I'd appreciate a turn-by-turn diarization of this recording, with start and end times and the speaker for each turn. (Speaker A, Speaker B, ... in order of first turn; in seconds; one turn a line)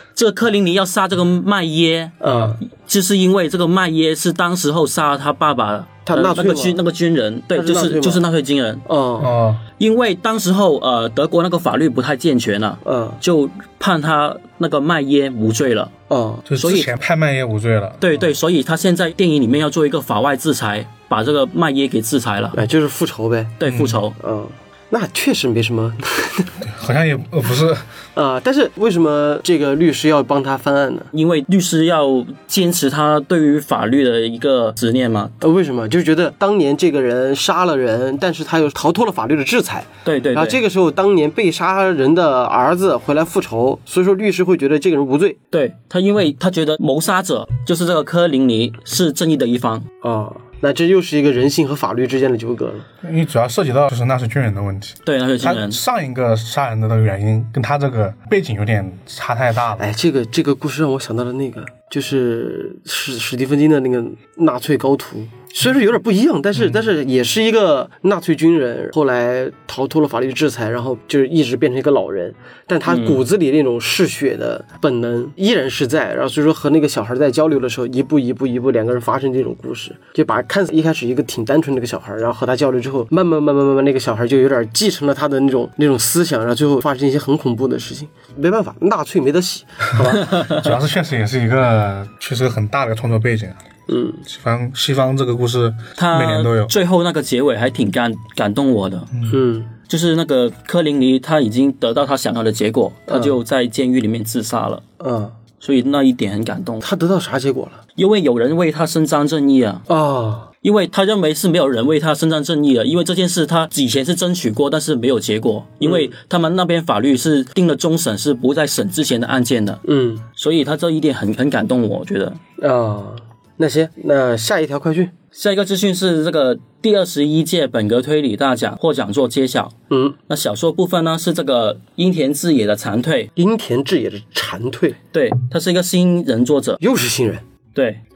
Speaker A: 0.1-2.2
Speaker B: 2.2-2.6
Speaker C: 2.3-2.5
Speaker A: 2.7-8.8
Speaker B: 6.1-6.8
Speaker B: 7.5-8.3
Speaker B: 8.9-9.3
Speaker C: 9.2-9.6
Speaker A: 9.8-15.9
Speaker B: 12.8-13.2
Speaker B: 16.1-16.4
Speaker C: 16.5-18.2
Speaker A: 16.6-16.9
Speaker A: 18.0-22.6
Speaker B: 22.5-23.6
Speaker A: 23.6-24.2
Speaker C: 23.6-24.0
Speaker B: 24.2-26.5
Speaker C: 26.6-27.9
Speaker B: 28.2-31.1
Speaker A: 31.1-35.4
Speaker B: 35.4-45.4
Speaker A: 40.0-40.6
Speaker A: 45.5-49.9
Speaker B: 50.0-52.9
Speaker C: 53.0-59.9
Speaker A: 55.0-55.8
Speaker B: 59.8-90.2
Speaker C: 66.5-66.8
Speaker A: 72.9-73.2
Speaker C: 89.9-93.6
Speaker A: 90.2-90.5
Speaker B: 93.9-94.2
Speaker C: 94.2-96.7
Speaker A: 96.0-99.1
Speaker B: 99.3-99.7
Speaker A: 99.9-104.8
Speaker B: 103.1-103.4
Speaker B: 105.0-105.3
Speaker A: 105.6-106.9
Speaker B: 106.8-107.8
Speaker A: 108.0-109.8
Speaker B: 109.9-110.5
Speaker A: 110.6-119.8
Speaker B: 115.8-116.1
Speaker B: 119.8-120.2
Speaker A: 120.4-122.4
Speaker B: 122.6-125.2
Speaker A: 125.4-129.8
Speaker B: 129.9-130.2
Speaker A: 130.3-133.3
Speaker B: 133.4-135.0
Speaker A: 135.1-136.8
Speaker B: 136.8-137.4
Speaker A: 137.7-138.0